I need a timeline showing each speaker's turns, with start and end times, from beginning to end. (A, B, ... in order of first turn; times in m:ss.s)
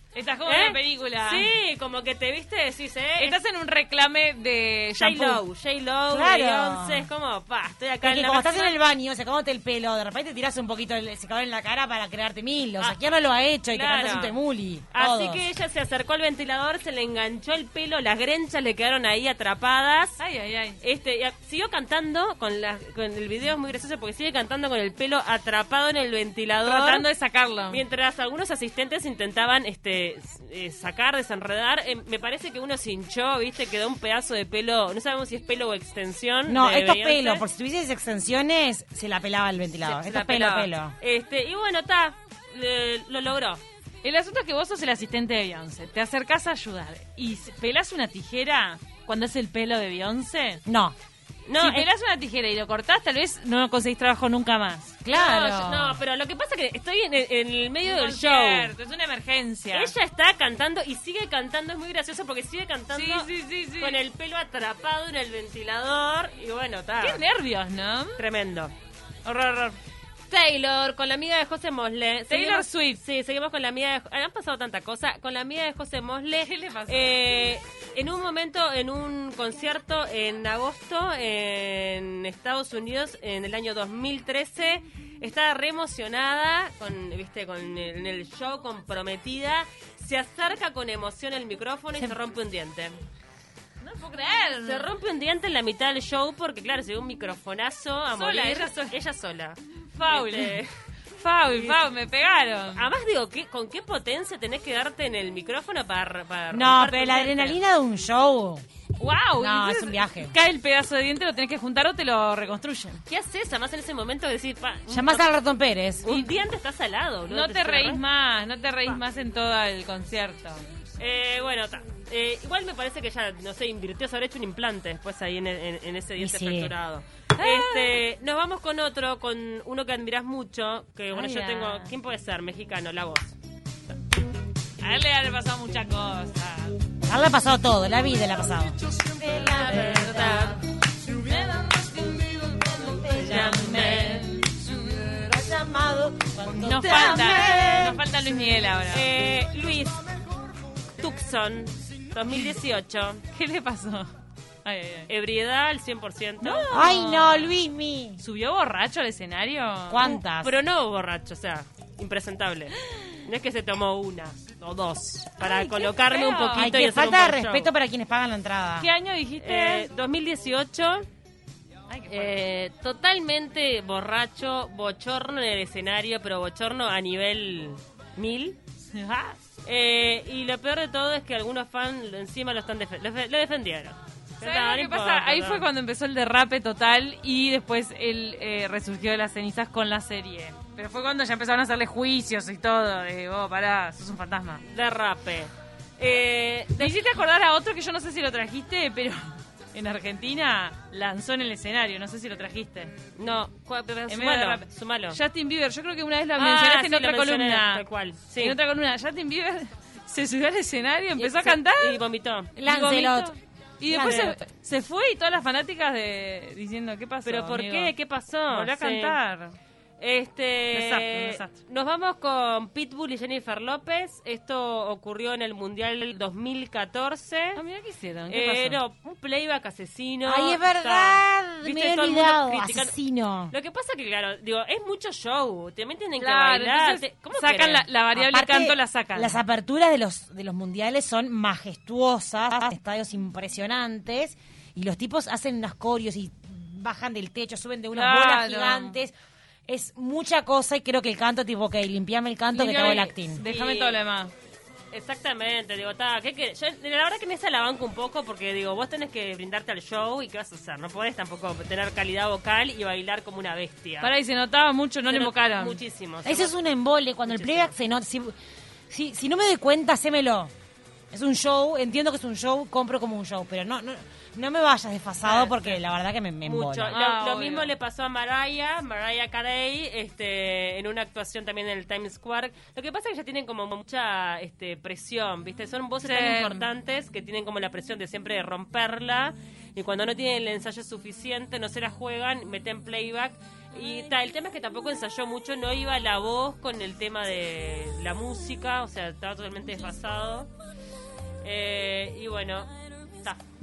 0:00.2-0:01.5 A
0:00.5-0:03.4 B
0:03.2-0:05.4 A
0:05.0-0:08.8 B
0:06.1-0:07.1 C
0:08.0-0:15.4 C
0:13.7-0:14.3 A
0:13.8-0:14.3 B
0:14.9-0:20.2 B
0:20.2-0:20.8 A
0:20.8-0:27.1 B
0:26.6-0:27.8 A
0:27.7-0:37.4 B
0:36.5-0:41.0 C
0:39.8-0:40.7 A
0:41.0-0:43.6 B
0:44.0-0:50.6 A
0:50.7-0:51.0 C
0:51.5-0:51.9 B
0:51.6-0:55.0 A
0:55.0-0:56.0 C
0:55.1-0:58.7 B
0:57.8-0:59.9 A
0:59.7-1:07.2 B
1:02.9-1:04.0 A
1:07.0-1:08.2 A
1:08.2-1:08.7 B
1:09.2-1:09.8 A
1:10.3-1:33.0 B
1:12.3-1:13.0 A
1:16.4-1:17.2 A
1:33.8-1:34.9 A
1:34.6-1:40.7 B
1:38.2-1:38.9 A
1:39.9-1:40.6 A
1:41.2-1:42.9 A
1:41.5-1:41.8 B
1:42.7-1:47.6 B
1:46.5-1:48.6 C
1:49.0-1:53.0 A
1:49.4-1:50.4 C
1:53.1-1:55.3 B
1:54.9-1:56.3 C
1:56.0-1:58.0 B
1:57.3-2:00.7 A
2:01.0-2:13.4 B
2:06.2-2:06.7 C
2:07.4-2:08.0 A
2:11.1-2:11.9 A
2:14.8-2:16.8 A
2:17.1-2:20.6 C
2:19.5-2:20.6 B
2:21.0-2:24.7 A
2:22.8-2:28.0 C
2:23.2-2:24.4 B
2:26.5-2:29.1 A
2:26.8-2:27.6 B
2:28.9-2:30.0 B
2:31.0-2:33.2 B
2:33.3-2:34.1 A
2:34.6-2:35.1 A
2:35.1-2:36.7 B
2:36.4-2:37.6 A
2:36.7-2:38.2 C
2:38.2-2:40.2 A
2:39.9-2:40.5 C
2:40.0-2:47.7 B
2:42.8-2:43.1 A
2:45.4-2:46.7 A
2:46.6-2:48.9 C
2:48.8-2:49.9 A
2:49.4-2:51.0 B
2:51.9-2:52.4 A
2:52.1-2:58.6 B
2:58.9-2:59.4 A
2:59.6-3:05.7 B
3:04.4-3:14.6 A
3:14.6-3:17.0 B
3:16.8-3:22.9 A
3:23.2-3:25.2 B
3:24.1-3:27.8 A
3:26.4-3:28.6 B
3:28.4-3:32.0 A
3:31.2-3:32.5 B
3:32.6-3:33.3 C
3:32.6-3:37.9 A
3:33.9-3:34.4 C
3:34.0-3:34.3 B
3:37.2-3:39.2 B
3:38.5-3:39.6 A
3:40.0-3:47.6 B
3:40.7-3:41.5 A
3:47.6-3:48.8 A
3:48.3-3:53.0 B
3:50.3-3:53.5 C
3:53.5-3:57.9 B
3:56.2-3:59.4 A
3:58.1-4:09.1 C
4:07.9-4:09.0 A
4:09.7-4:13.4 C
4:12.5-4:14.3 A
4:13.4-4:14.0 B
4:14.9-4:24.1 B
4:24.0-4:25.8 A
4:25.1-4:26.5 B
4:26.2-4:28.4 C
4:27.2-4:27.7 B
4:28.9-4:30.5 C
4:31.1-4:37.0 C
4:35.2-4:35.8 B
4:36.4-5:00.5 B
4:36.9-4:37.7 A
4:46.0-4:46.7 A
5:01.4-5:03.4 B